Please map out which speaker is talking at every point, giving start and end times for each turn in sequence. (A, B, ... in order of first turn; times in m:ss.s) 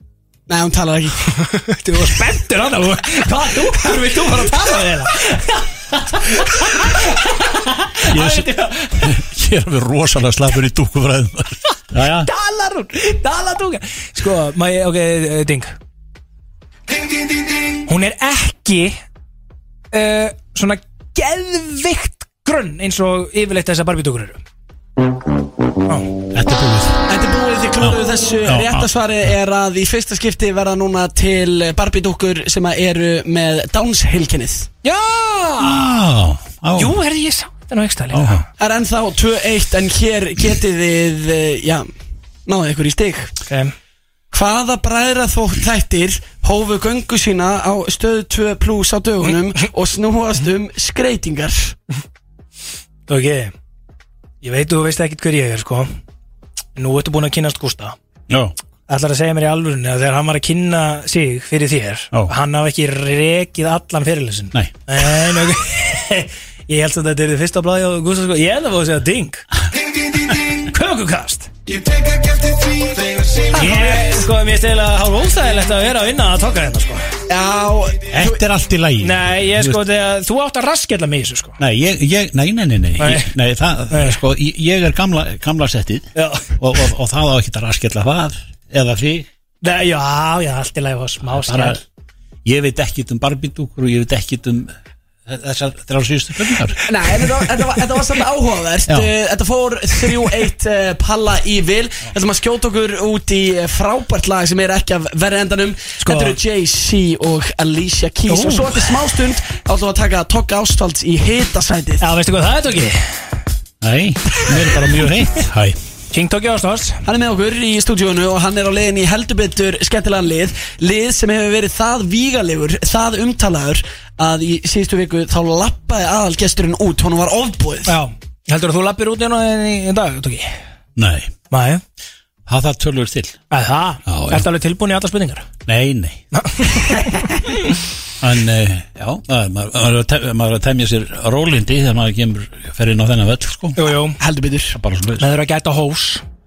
0:00.5-0:01.2 A
0:01.5-0:09.2 B
0:08.0-0:12.3 C
0:12.2-0:15.8 B
0:17.9-0:19.0 B
0:19.9-0:24.4 B
0:26.3-0:27.0 C
0:27.1-0:34.7 A
0:27.8-0:28.9 C
0:34.8-0:35.9 B
0:35.6-0:37.0 C
0:36.8-0:38.4 B
0:38.1-0:38.5 C
0:38.6-0:41.9 A
0:42.5-0:43.3 A
0:43.5-0:43.7 B
0:44.3-0:51.8 A
0:53.1-0:53.5 B
0:54.4-0:55.9 B
0:56.8-0:58.0 B
0:58.9-1:09.4 B
1:10.6-1:11.5 B
1:13.5-1:17.1 B
1:13.6-1:14.1 C
1:17.3-1:18.4 A
1:18.1-1:19.8 C
1:19.0-1:21.6 B
1:21.6-1:29.3 C
1:23.0-1:23.3 B
1:23.9-1:24.2 B
1:26.2-1:26.6 B
1:29.6-1:31.8 B
1:31.2-1:31.8 C
1:32.4-1:34.7 C
1:35.3-1:36.8 C
1:36.9-1:52.1 A
1:46.0-1:46.4 B
1:48.3-1:48.9 B
1:52.0-1:53.1 B
1:53.8-1:55.8 C
1:56.1-1:57.0 B
1:57.0-2:08.0 A
2:07.9-2:10.6 B
2:11.0-2:11.3 C
2:11.5-2:11.8 B
2:12.5-2:13.4 C
2:13.5-2:15.5 B
2:14.1-2:14.5 C
2:15.7-2:16.2 C
2:16.3-2:17.6 B
2:18.2-2:23.8 C
2:23.8-2:24.2 B
2:24.2-2:24.8 A
2:24.7-2:25.3 C
2:25.2-2:26.2 B